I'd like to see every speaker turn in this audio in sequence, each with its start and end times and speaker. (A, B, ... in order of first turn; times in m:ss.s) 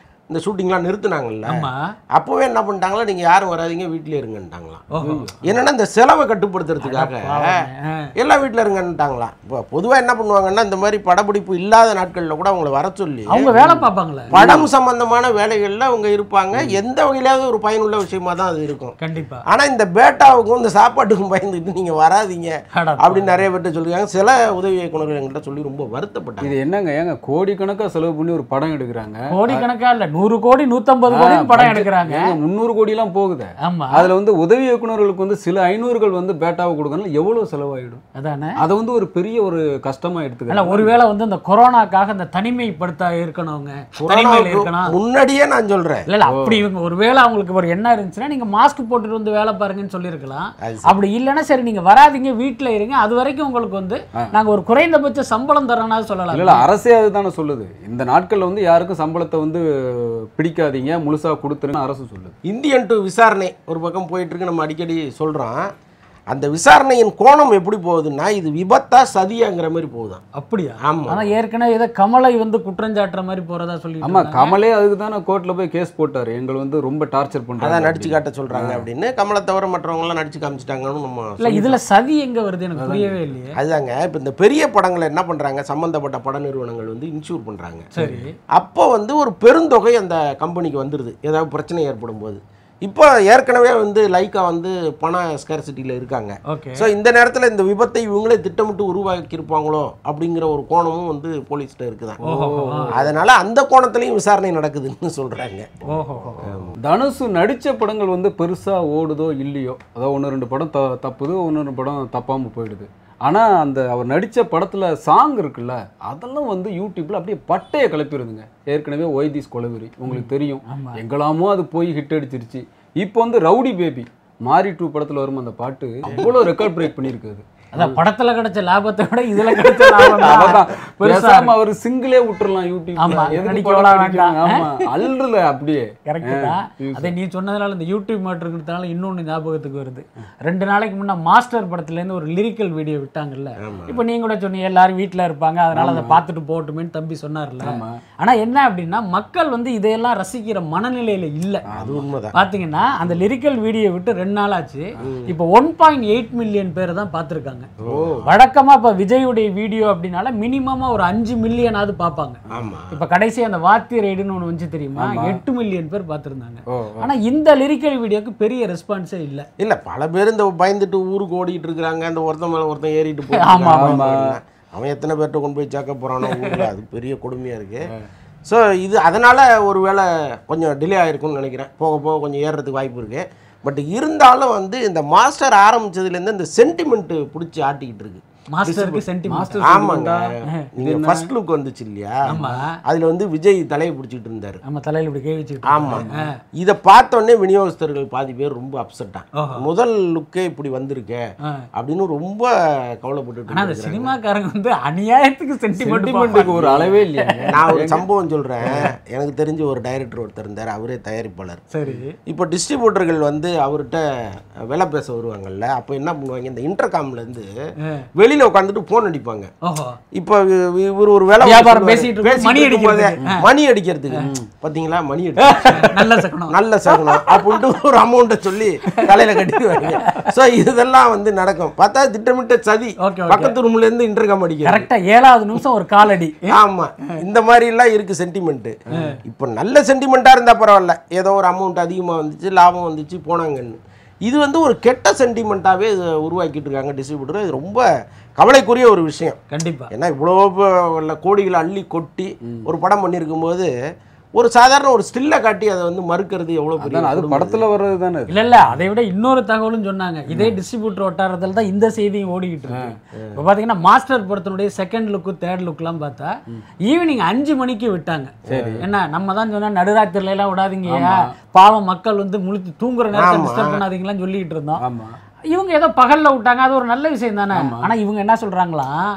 0:00.3-0:04.8 A
0:01.5-0:01.9 B
0:04.9-0:05.3 B
0:05.0-0:05.6 C
0:05.4-0:07.6 A
0:06.8-0:08.1 B
0:08.2-0:13.5 A
0:13.3-0:14.3 B
0:13.5-0:14.7 C
0:14.3-0:18.9 A
0:19.0-0:19.4 B
0:19.5-0:26.5 A
0:22.7-0:23.2 B
0:26.4-0:29.6 C
0:29.3-0:32.3 B
0:31.1-0:38.0 C
0:33.6-0:34.1 B
0:38.1-0:38.6 B
0:38.6-0:40.9 C
0:40.5-0:44.9 B
0:44.0-0:46.0 A
0:46.1-0:56.7 B
0:46.3-0:46.6 C
0:50.6-0:50.9 A
0:56.3-1:02.3 C
1:02.4-1:05.6 A
1:06.3-1:10.2 A
1:10.4-1:14.6 B
1:10.8-1:11.3 A
1:14.0-1:18.8 C
1:17.6-1:21.8 A
1:21.4-1:23.5 B
1:22.8-1:23.1 C
1:23.6-1:27.9 A
1:27.9-1:28.3 B
1:28.5-1:42.2 A
1:36.5-1:36.9 B
1:42.2-1:42.9 B
1:42.3-1:43.1 C
1:42.9-1:45.7 A
1:45.9-1:46.5 B
1:46.4-1:46.8 A
1:46.8-2:08.0 C
2:00.1-2:01.0 B
2:07.7-2:11.5 B
2:09.5-2:17.1 C
2:13.0-2:14.8 B
2:16.0-2:31.6 B
2:23.6-2:24.0 A
2:25.7-2:26.2 C
2:27.6-2:28.0 C
2:31.7-2:32.0 C
2:31.7-2:32.3 A
2:32.3-2:37.7 B
2:35.0-2:35.3 A
2:37.8-2:38.3 A
2:37.8-2:38.2 C
2:38.2-2:42.4 B
2:42.5-2:43.0 A
2:42.9-2:49.4 B
2:45.0-2:45.4 C
2:46.7-2:47.1 C
2:49.6-2:57.9 A
2:53.4-2:54.0 B
2:53.6-2:54.2 C
2:56.2-2:56.7 B
2:58.4-3:09.0 A
3:08.5-3:09.7 B
3:09.3-3:11.3 C
3:09.6-3:12.2 A
3:12.3-3:12.8 B
3:12.9-3:14.6 A
3:14.6-3:16.3 B
3:15.7-3:16.0 A
3:15.9-3:16.3 C
3:16.6-3:21.2 A
3:19.4-3:19.6 B
3:21.7-3:24.1 A
3:23.5-3:27.5 B
3:25.8-3:28.0 C
3:26.3-3:26.6 A
3:27.5-3:31.6 A
3:31.7-3:32.1 B
3:32.3-3:37.5 A
3:38.2-3:39.5 A
3:39.6-3:40.0 B
3:40.1-3:54.9 A
3:41.4-3:43.4 B
3:45.4-3:47.5 B
3:48.9-3:49.1 B
3:49.9-3:50.3 B
3:53.0-3:53.5 B
3:54.6-3:57.1 B
3:56.5-4:07.8 A
4:08.4-4:09.4 A
4:09.5-4:09.9 B
4:09.9-4:13.7 A
4:14.3-4:17.6 A
4:16.8-4:18.7 C
4:18.3-4:26.3 B
4:26.8-4:34.8 B
4:28.5-4:28.8 A
4:28.5-4:28.8 C
4:30.9-4:31.3 C
4:33.1-4:33.8 A
4:34.8-4:35.2 C
4:35.5-4:39.0 B
4:37.5-4:37.9 C